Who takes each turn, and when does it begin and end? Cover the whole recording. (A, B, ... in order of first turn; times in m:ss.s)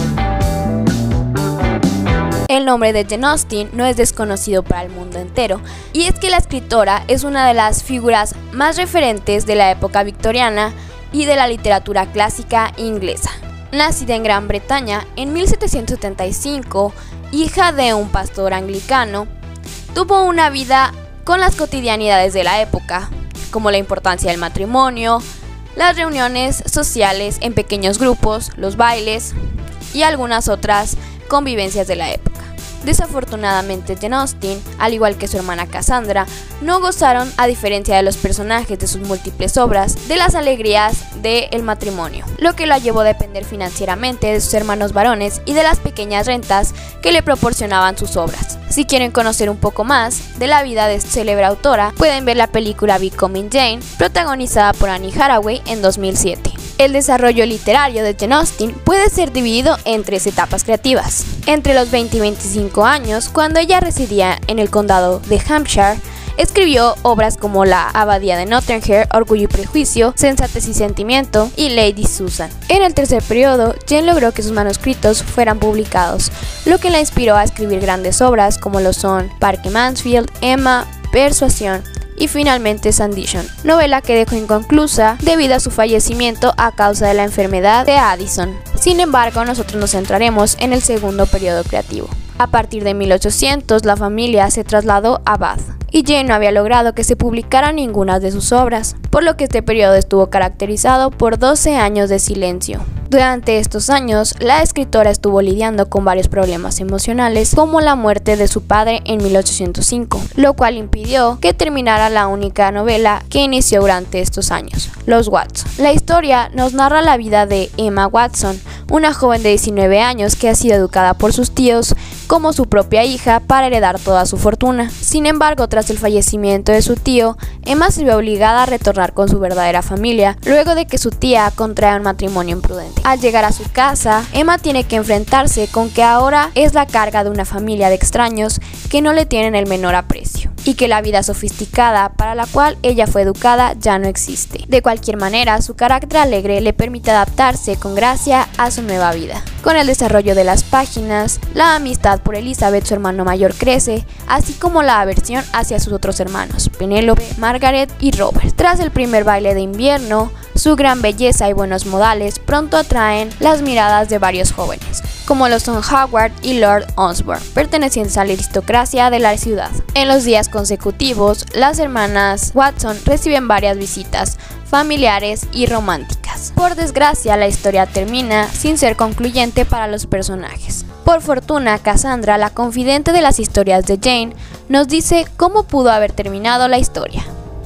0:02.5-0:19.3 A
0:19.9-0:29.4 A
0:29.9-3:07.3 A